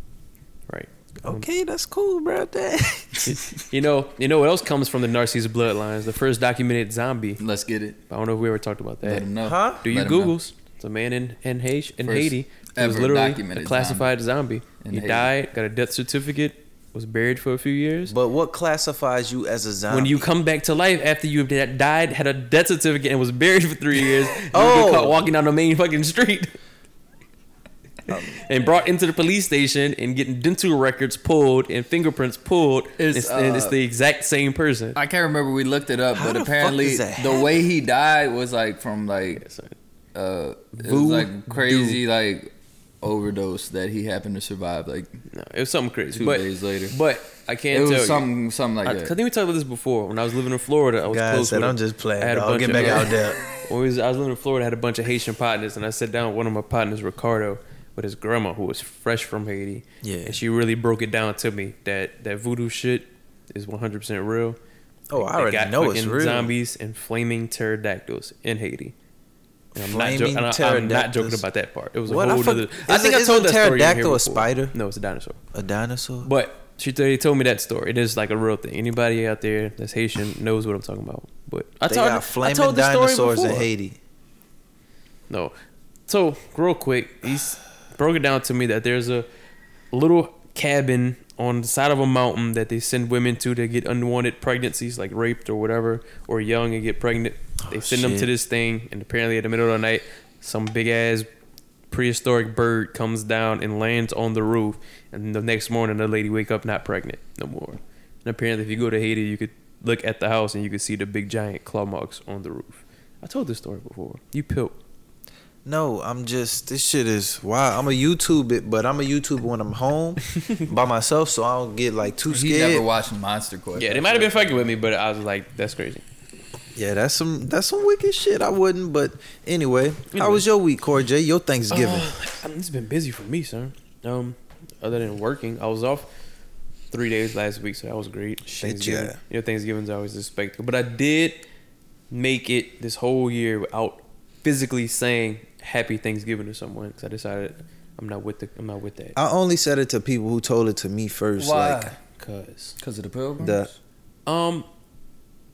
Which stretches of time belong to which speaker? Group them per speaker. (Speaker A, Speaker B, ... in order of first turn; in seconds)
Speaker A: 0.7-1.4, 3.2-7.4, 8.1-9.3, 9.8-18.1, 19.9-26.5, 28.2-35.0, 39.4-39.7, 40.8-42.0, 45.3-48.3, 48.8-64.6, 65.2-68.9, 69.7-75.4, 76.2-83.7, 86.1-89.3, 89.9-101.3, 101.9-114.8, 123.8-126.0, 130.1-130.4, 131.7-136.1, 136.9-141.4, 142.1-149.2, 152.2-152.8, 154.2-154.7
Speaker B: 1.2-3.4, 9.4-9.8, 18.1-20.3, 24.5-25.2, 28.1-28.4, 36.1-37.5, 51.1-53.4, 60.0-60.4, 65.1-66.5, 69.8-71.4, 72.1-74.7, 75.5-76.3, 81.9-84.0, 97.7-98.3, 115.6-122.9, 126.8-132.1, 138.5-139.2, 149.2-151.9, 153.4-153.7
Speaker C: 7.4-8.0, 9.0-10.3, 12.0-14.2, 14.8-15.3, 33.0-33.8, 34.9-39.4, 40.1-45.2, 46.1-46.9, 47.7-49.1, 52.7-53.1, 122.2-124.6, 151.3-151.9, 152.8-153.7